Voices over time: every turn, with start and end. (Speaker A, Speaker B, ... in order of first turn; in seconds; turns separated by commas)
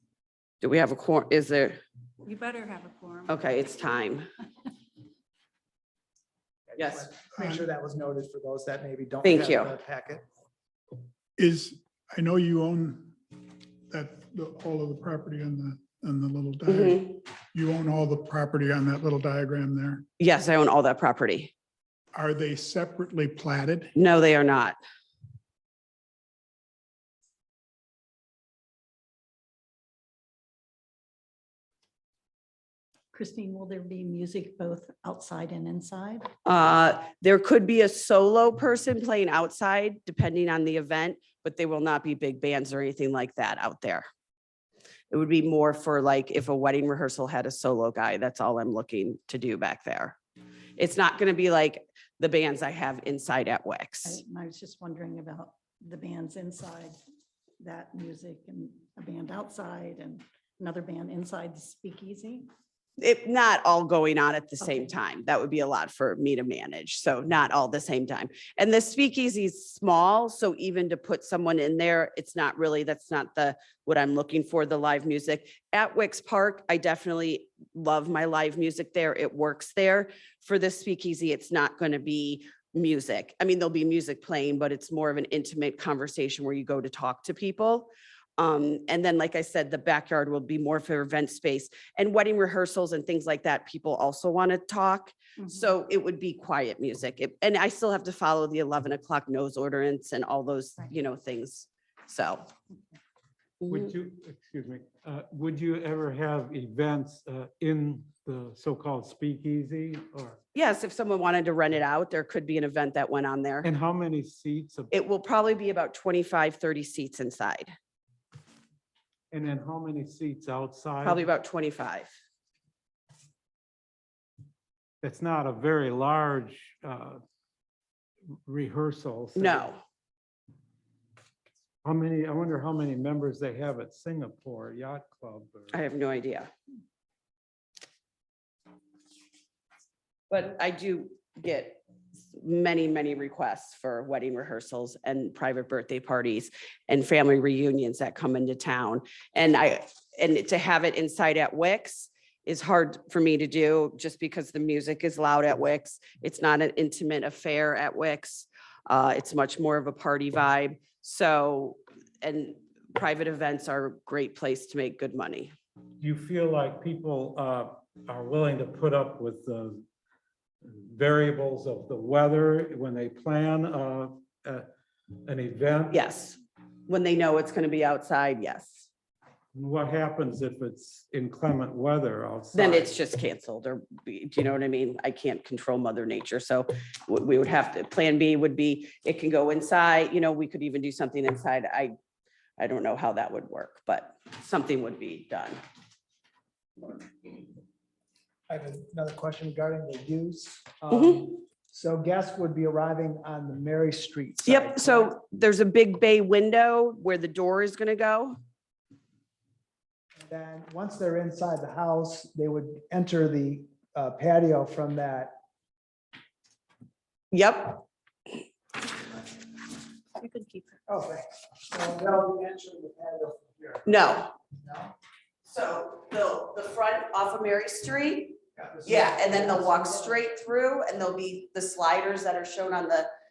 Speaker A: 0.6-1.8, Speaker B: 2.2-3.4, Speaker A: 3.3-4.3, Speaker C: 6.7-10.2, Speaker A: 6.8-7.1, Speaker D: 7.4-7.6, Speaker A: 9.2-9.7, Speaker D: 11.4-13.2, Speaker D: 13.9-20.1, Speaker A: 16.7-17.2, Speaker A: 20.2-21.5, Speaker D: 22.1-23.9, Speaker A: 23.9-24.8, Speaker B: 33.1-36.3, Speaker A: 36.5-44.1, Speaker A: 45.1-50.2, Speaker A: 50.8-54.2, Speaker B: 54.0-57.0, Speaker B: 57.6-62.5, Speaker A: 63.0-102.5, Speaker B: 64.6-65.0, Speaker A: 103.6-103.9, Speaker E: 103.7-110.4, Speaker A: 110.5-113.7, Speaker E: 113.6-114.9, Speaker A: 114.9-117.7, Speaker E: 119.3-121.3, Speaker A: 121.0-122.1, Speaker E: 125.0-127.2, Speaker E: 128.5-129.7, Speaker A: 129.4-129.8, Speaker E: 131.8-135.8, Speaker A: 135.7-136.5, Speaker A: 140.3-141.8, Speaker A: 142.3-165.5, Speaker E: 166.0-169.9, Speaker E: 170.6-174.7, Speaker E: 175.3-176.0, Speaker A: 175.9-178.9, Speaker E: 179.5-182.9, Speaker A: 182.5-191.9, Speaker A: 192.6-195.6, Speaker C: 198.5-205.1, Speaker A: 200.9-201.3, Speaker A: 204.4-208.4, Speaker C: 210.2-215.3, Speaker A: 217.3-217.8, Speaker C: 220.9-223.9, Speaker A: 223.9-224.3, Speaker C: 224.6-224.9, Speaker A: 225.4-233.1, Speaker C: 228.6-230.2